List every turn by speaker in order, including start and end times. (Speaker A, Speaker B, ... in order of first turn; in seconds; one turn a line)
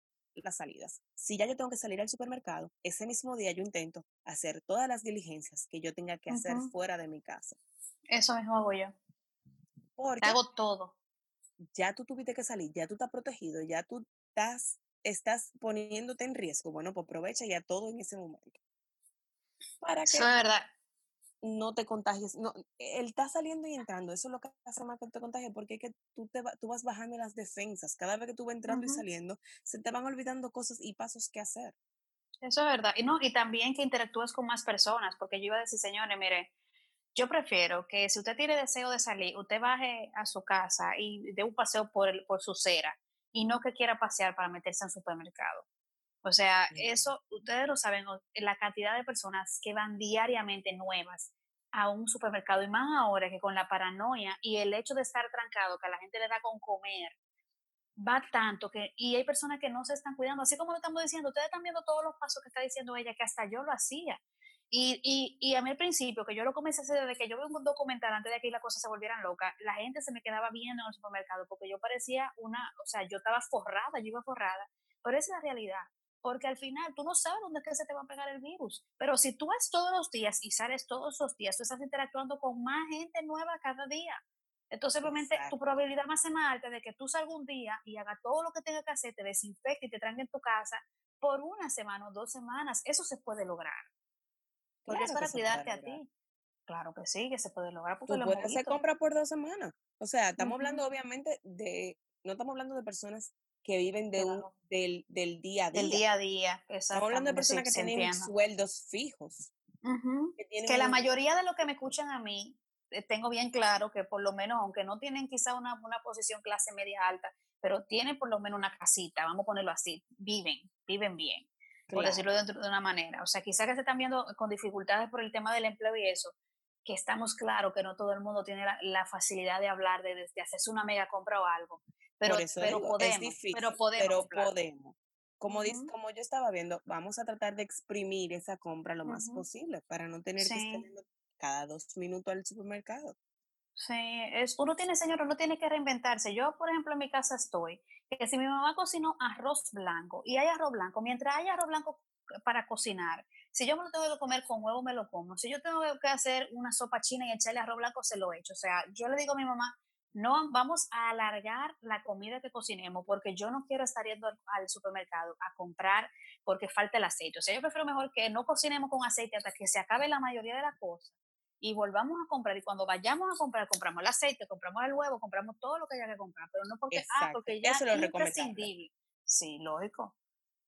Speaker A: 0.3-7.6
Speaker B: 6.3-6.7
Speaker B: 8.1-8.9
Speaker A: 10.0-10.4
Speaker B: 10.2-10.9
Speaker A: 11.7-18.6
Speaker A: 19.8-20.3
Speaker B: 20.1-20.7
Speaker A: 21.4-31.7
Speaker B: 28.7-29.0
Speaker B: 32.4-36.5
Speaker B: 37.1-45.6
Speaker B: 46.2-57.1
Speaker A: 46.7-47.0
Speaker B: 58.0-84.2
Speaker B: 84.7-93.9
Speaker A: 85.0-85.5
Speaker A: 94.8-96.0
Speaker B: 94.9-96.1
Speaker B: 96.7-98.8
Speaker A: 98.1-106.0
Speaker B: 100.4-100.8
Speaker B: 104.2-104.5
Speaker B: 105.7-108.3
Speaker A: 106.9-109.5
Speaker B: 109.8-126.3
Speaker A: 110.4-111.1
Speaker A: 121.9-122.2
Speaker B: 126.8-134.5
Speaker A: 132.2-143.2
Speaker B: 135.5-135.9
Speaker B: 139.0-139.4
Speaker B: 140.4-140.9
Speaker B: 143.8-180.1
Speaker A: 176.9-178.7